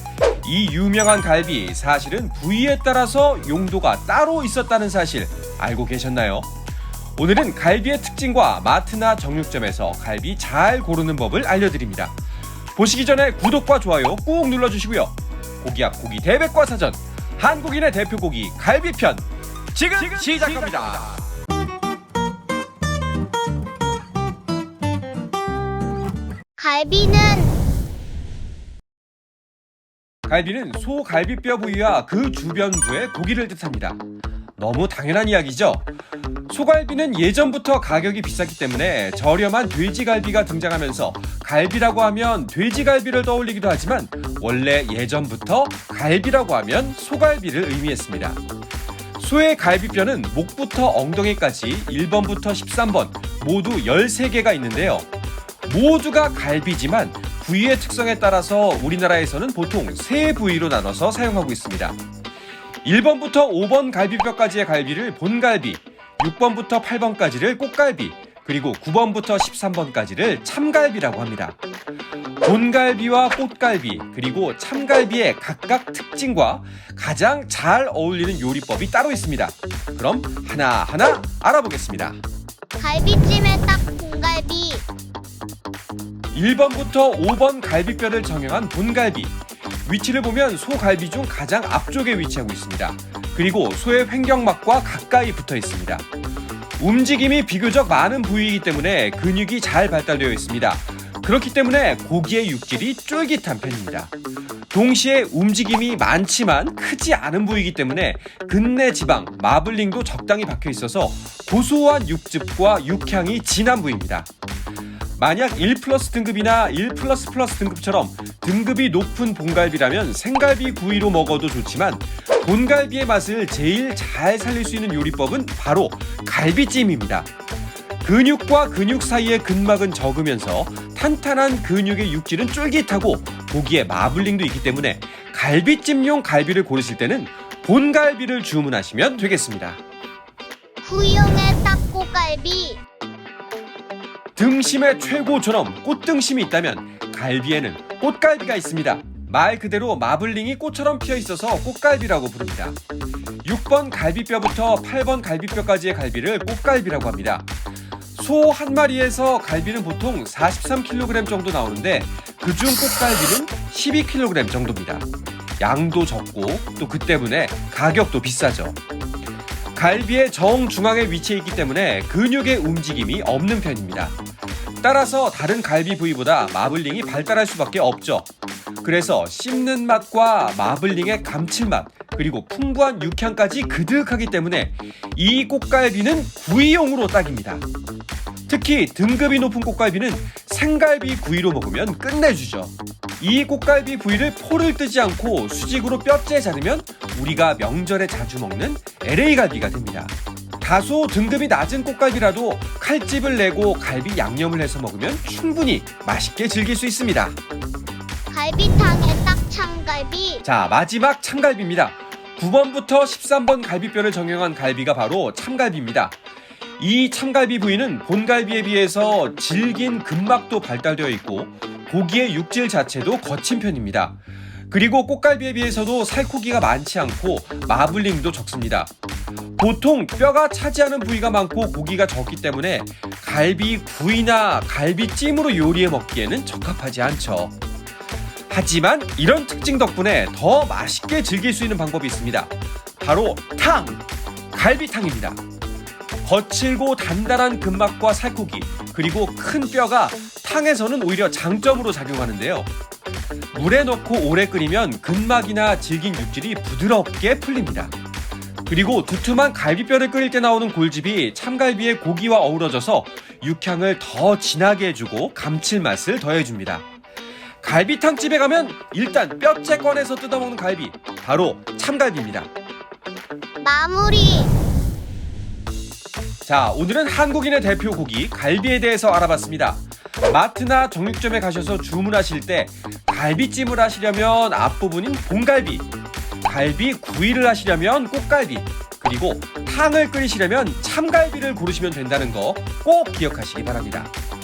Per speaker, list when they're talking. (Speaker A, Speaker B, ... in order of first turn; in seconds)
Speaker A: 0.4-6.5, 7.2-12.2, 12.8-21.3, 30.3-34.0, 34.6-35.9, 36.5-48.4, 49.2-55.1, 55.7-62.0, 62.8-71.6, 72.4-82.2, 86.3-96.1, 96.8-104.1, 104.7-114.3, 115.2-127.3, 128.0-139.8, 144.4-152.8, 153.4-157.5, 158.2-165.1, 165.6-168.8, 169.8-174.2, 174.8-178.3, 178.8-187.6, 188.5-207.4, 210.4-216.2, 216.8-224.2, 224.7-228.9, 229.6-237.6, 238.5-245.4, 246.2-252.7, 253.5-257.9, 258.7-266.9, 267.6-272.5, 276.5-285.9, 286.4-294.1
Speaker B: 26.6-27.6, 82.8-84.9, 140.8-142.8, 208.3-210.4, 273.6-274.5